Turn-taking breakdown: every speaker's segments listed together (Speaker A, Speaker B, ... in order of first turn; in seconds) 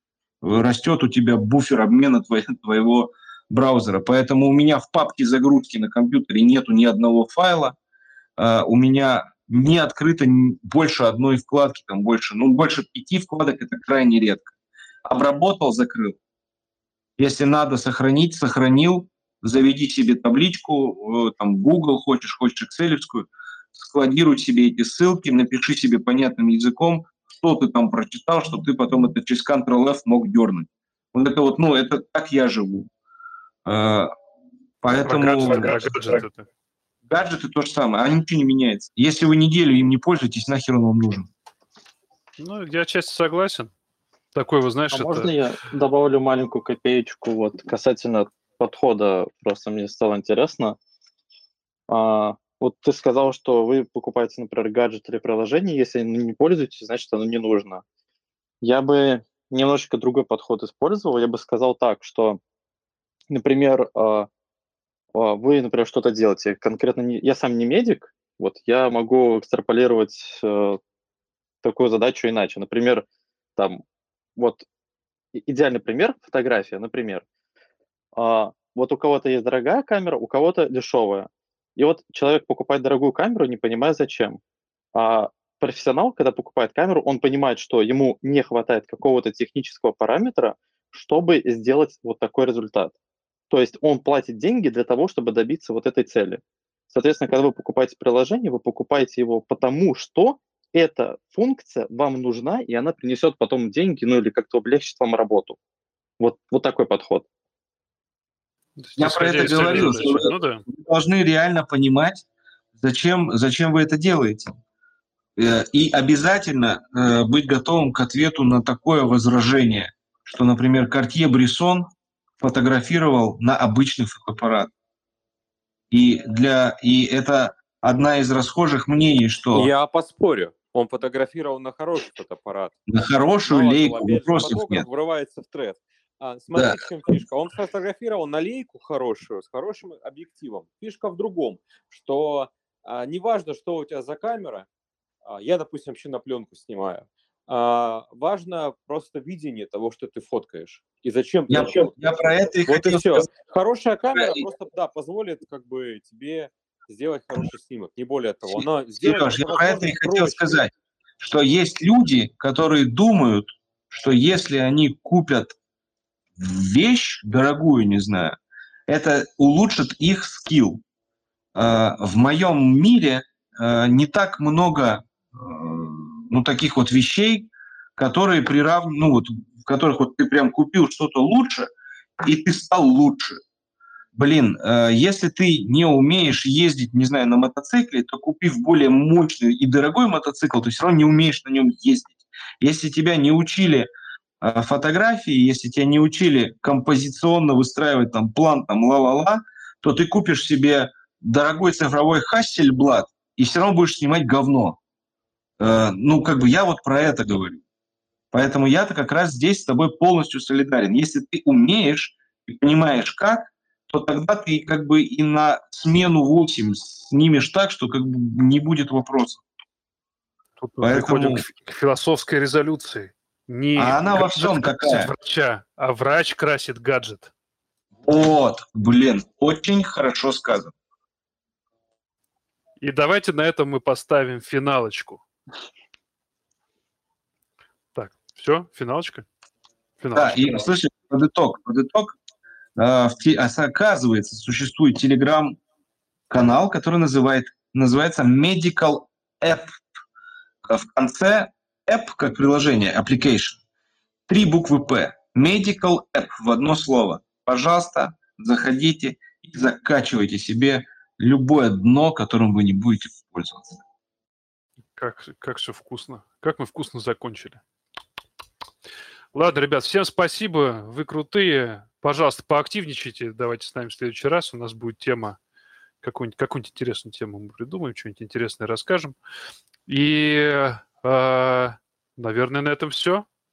Speaker A: 0.4-7.8, 8.4-14.5, 15.0-16.1, 17.2-32.9, 33.6-34.1, 34.8-36.2, 37.0-41.3, 109.0-112.2, 112.8-114.6, 115.3-121.9, 122.4-124.7, 125.9-129.7, 132.9-134.8, 151.5-153.3, 154.1-154.4, 158.5-165.5, 166.4-170.8, 171.5-183.4, 184.1-193.9, 194.4-204.8, 205.6-207.6, 208.3-219.4, 220.8-221.4, 223.8-225.1, 228.0-230.7, 240.1-242.2, 242.8-245.6, 246.3-249.8, 250.6-253.6, 254.3-263.8
Speaker B: 35.0-36.5, 42.4-43.7, 44.3-45.3, 108.8-110.6, 220.6-227.3, 232.8-235.2, 237.9-239.2, 240.0-240.6, 264.9-267.6, 269.3-275.4, 276.0-279.1, 279.9-283.2
Speaker C: 44.9-50.8, 51.9-57.8, 58.6-62.4, 63.3-64.3, 65.1-70.8, 71.6-73.0, 73.6-73.8, 74.4-74.6, 75.3-77.2, 78.1-84.4, 84.9-92.9, 93.5-105.6, 106.2-107.2
Speaker D: 129.5-132.8, 133.4-144.7, 145.2-160.6